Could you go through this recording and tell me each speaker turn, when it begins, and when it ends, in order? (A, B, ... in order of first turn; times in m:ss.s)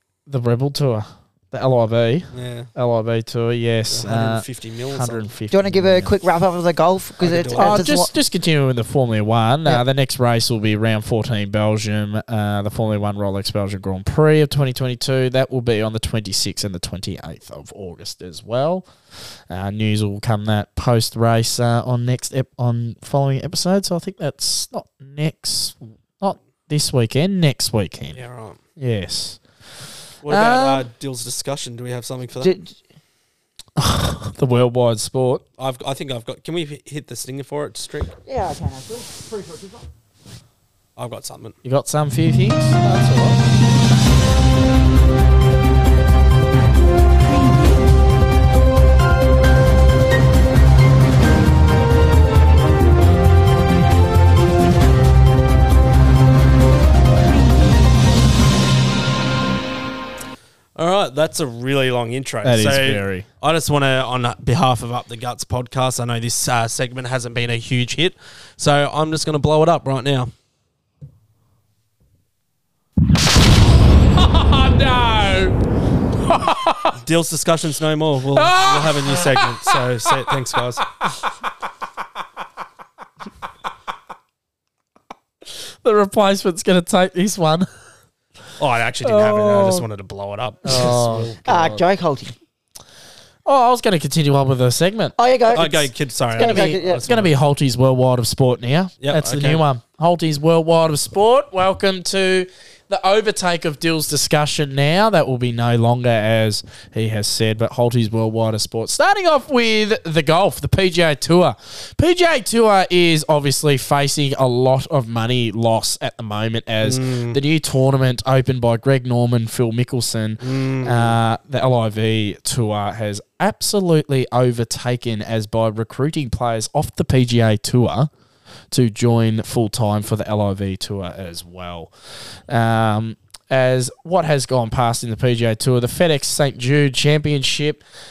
0:00.3-0:06.1 A
0:02.3-0:02.7 B
0:03.9-0:05.2 B
0:05.5-0:08.1 C
0:07.2-0:07.9 B
0:07.6-0:28.2 A
0:28.1-0:28.6 B
0:28.8-0:29.4 A
0:30.2-0:32.5 B
0:30.2-0:30.9 A
0:32.4-0:32.8 C
0:33.8-0:35.4 A
0:35.6-0:38.1 B
0:38.2-0:39.8 C
0:41.0-0:41.6 B
0:41.6-0:43.4 A
1:00.8-1:10.3 B
1:02.4-1:03.2 A
1:14.1-1:15.6 A
1:16.2-1:17.0 A
1:17.0-1:20.8 B
1:18.3-1:20.3 A
1:21.0-1:21.5 A
1:25.5-1:27.7 A
1:28.6-1:31.8 B
1:29.0-1:29.8 A
1:30.6-1:31.3 A
1:31.4-1:32.3 C
1:33.4-1:35.1 A
1:35.2-1:37.0 C
1:35.5-1:37.3 B
1:36.4-2:08.1 A
1:39.0-1:39.6 B
1:56.8-1:57.4 B
2:00.4-2:01.2 B
2:08.7-2:11.9 A
2:12.5-2:17.8 A